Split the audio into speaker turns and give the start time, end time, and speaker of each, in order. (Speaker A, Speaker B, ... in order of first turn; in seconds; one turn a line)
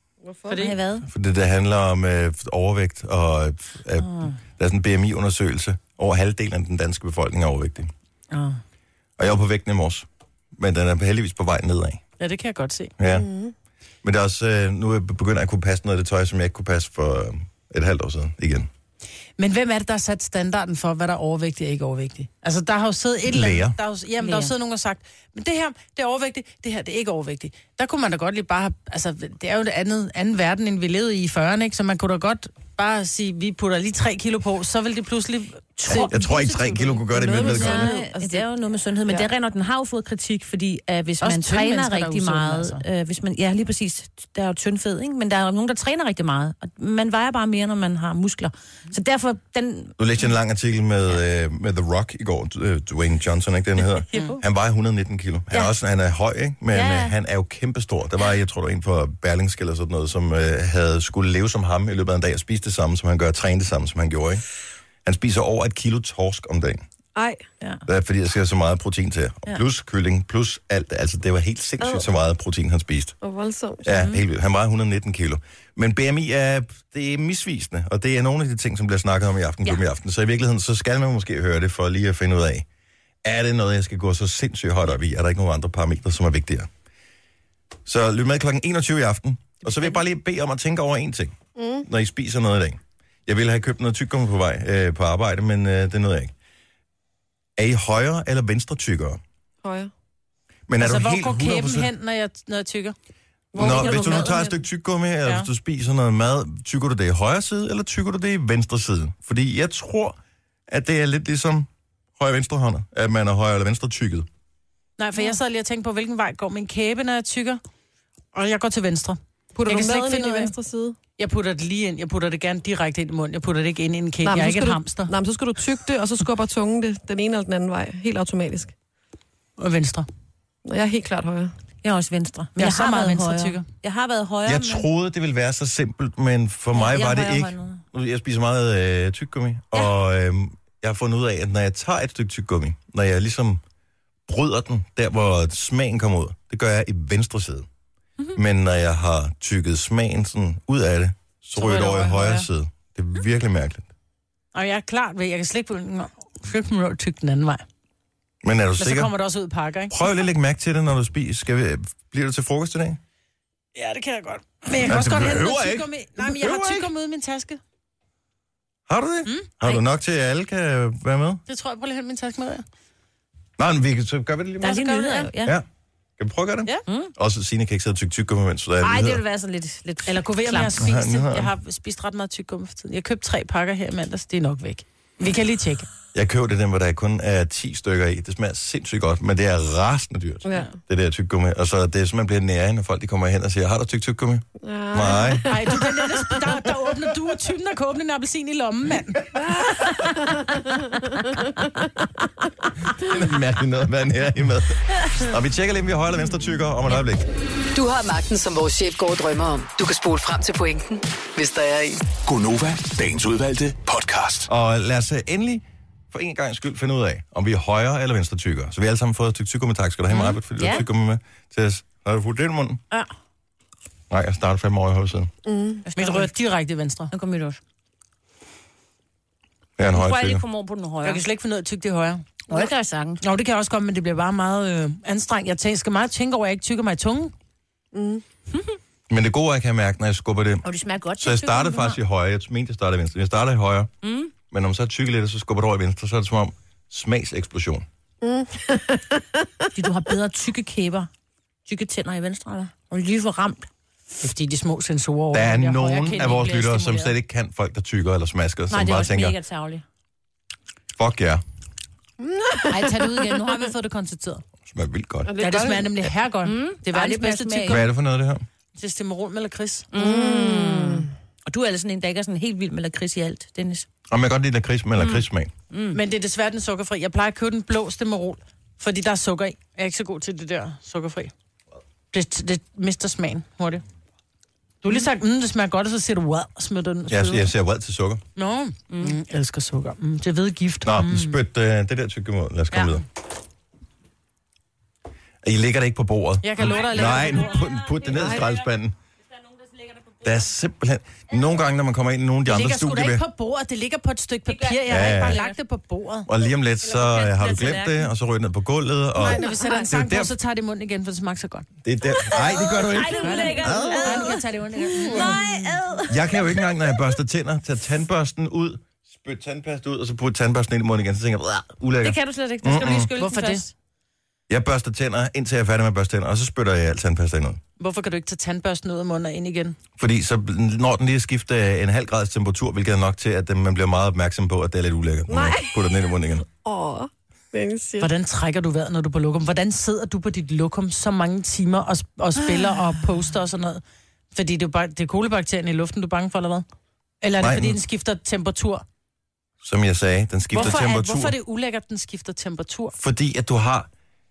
Speaker A: 0.2-0.6
Speaker B: 0.5-0.8
Speaker C: 0.6-1.1
Speaker D: 1.1-7.9
Speaker C: 4.0-4.4
Speaker C: 8.3-8.6
Speaker D: 9.2-12.0
Speaker B: 12.2-12.9
Speaker D: 13.0-13.3
Speaker A: 13.1-13.5
Speaker D: 14.0-18.7
Speaker B: 19.4-36.1
Speaker D: 23.3-23.8
Speaker C: 24.2-24.5
Speaker C: 35.8-49.9
Speaker D: 36.0-38.0
Speaker A: 37.1-38.5
Speaker B: 41.2-42.8
Speaker D: 50.0-64.4
Speaker C: 54.1-54.4
Speaker C: 56.7-57.1
Speaker D: 65.0-66.8
Speaker A: 67.1-67.4
Speaker D: 67.9-73.2
Speaker A: 73.2-73.9
Speaker D: 73.8-82.7
Speaker C: 73.9-74.2
Speaker D: 83.2-86.7
Speaker D: 87.9-96.3
Speaker A: 91.5-91.9
Speaker D: 97.6-99.2
Speaker A: 99.6-99.9
Speaker D: 100.7-101.9
Speaker B: 100.8-103.0
Speaker A: 103.5-104.3
Speaker D: 103.5-110.2
Speaker C: 103.6-104.5
Speaker D: 110.7-114.3
Speaker B: 115.0-117.6
Speaker B: 118.3-120.5
Speaker A: 119.5-121.0
Speaker B: 121.2-125.1
Speaker A: 124.2-128.7
Speaker B: 129.6-130.1
Speaker A: 130.6-131.5
Speaker C: 131.8-134.9
Speaker B: 132.6-133.7
Speaker D: 134.5-143.6
Speaker C: 136.7-137.8
Speaker D: 144.3-147.7
Speaker D: 148.4-153.9
Speaker B: 151.6-152.5
Speaker B: 154.5-157.6
Speaker D: 158.4-159.1
Speaker B: 158.8-160.0
Speaker D: 159.9-163.0
Speaker B: 163.8-167.6
Speaker D: 164.8-166.9
Speaker D: 168.9-171.4
Speaker B: 171.5-172.6
Speaker D: 173.6-175.6
Speaker C: 174.6-175.5
Speaker D: 176.2-179.2
Speaker C: 176.9-177.1
Speaker C: 178.8-180.8
Speaker B: 180.1-185.9
Speaker D: 180.8-181.5
Speaker D: 186.1-195.6
Speaker A: 194.6-196.0
Speaker B: 195.4-199.3
Speaker A: 199.5-200.9
Speaker D: 203.0-207.3
Speaker E: 207.7-212.0
Speaker F: 212.2-214.5
Speaker D: 214.5-222.8
Speaker C: 220.1-220.8
Speaker D: 224.1-225.3
Speaker A: 225.4-225.8
Speaker C: 225.8-226.3
Speaker B: 225.9-227.1
Speaker C: 227.1-227.6
Speaker D: 229.8-230.4
Speaker C: 229.9-231.2
Speaker B: 231.0-232.6
Speaker C: 232.5-233.2
Speaker B: 233.2-237.3
Speaker A: 237.9-238.2
Speaker D: 239.1-240.7
Speaker C: 240.6-242.0
Speaker D: 241.2-243.9
Speaker C: 244.0-244.3
Speaker D: 244.4-247.9
Speaker A: 248.2-249.5
Speaker C: 249.8-251.1
Speaker C: 251.7-253.7
Speaker B: 254.2-257.1
Speaker D: 255.3-259.4
Speaker C: 258.7-259.8
Speaker D: 261.0-261.4
Speaker A: 262.2-262.7
Speaker B: 262.7-264.4
Speaker C: 262.8-263.7
Speaker D: 264.6-265.3
Speaker A: 265.2-265.9
Speaker B: 265.4-267.9
Speaker C: 266.4-267.8
Speaker D: 267.7-268.4
Speaker B: 268.8-269.9
Speaker C: 269.9-273.9
Speaker A: 270.0-271.1
Speaker D: 274.1-275.5
Speaker C: 275.0-276.0
Speaker B: 275.9-281.3
Speaker B: 282.1-283.8
Speaker B: 284.8-287.5
Speaker D: 287.1-288.2
Speaker B: 288.4-291.4
Speaker C: 288.9-289.2
Speaker D: 290.9-293.0
Speaker D: 295.4-298.9
Speaker B: 296.4-297.6
Speaker C: 296.6-298.4
Speaker C: 299.8-300.1
Speaker D: 300.2-303.2
Speaker B: 302.5-306.3
Speaker C: 304.5-305.6
Speaker D: 304.9-305.4
Speaker D: 306.3-310.3
Speaker C: 306.8-308.1
Speaker B: 309.2-311.7
Speaker D: 311.8-314.4
Speaker C: 312.1-316.9
Speaker B: 313.1-315.7
Speaker D: 316.1-323.1
Speaker C: 322.0-323.7
Speaker B: 323.2-323.7
Speaker D: 324.5-327.6
Speaker B: 327.8-329.8
Speaker D: 330.0-336.5
Speaker A: 335.3-335.8
Speaker A: 336.6-338.1
Speaker B: 338.0-343.8
Speaker C: 342.5-342.8
Speaker B: 344.3-346.6
Speaker B: 347.2-348.9
Speaker D: 347.4-347.8
Speaker D: 349.6-351.4
Speaker B: 350.5-352.9
Speaker D: 353.0-353.9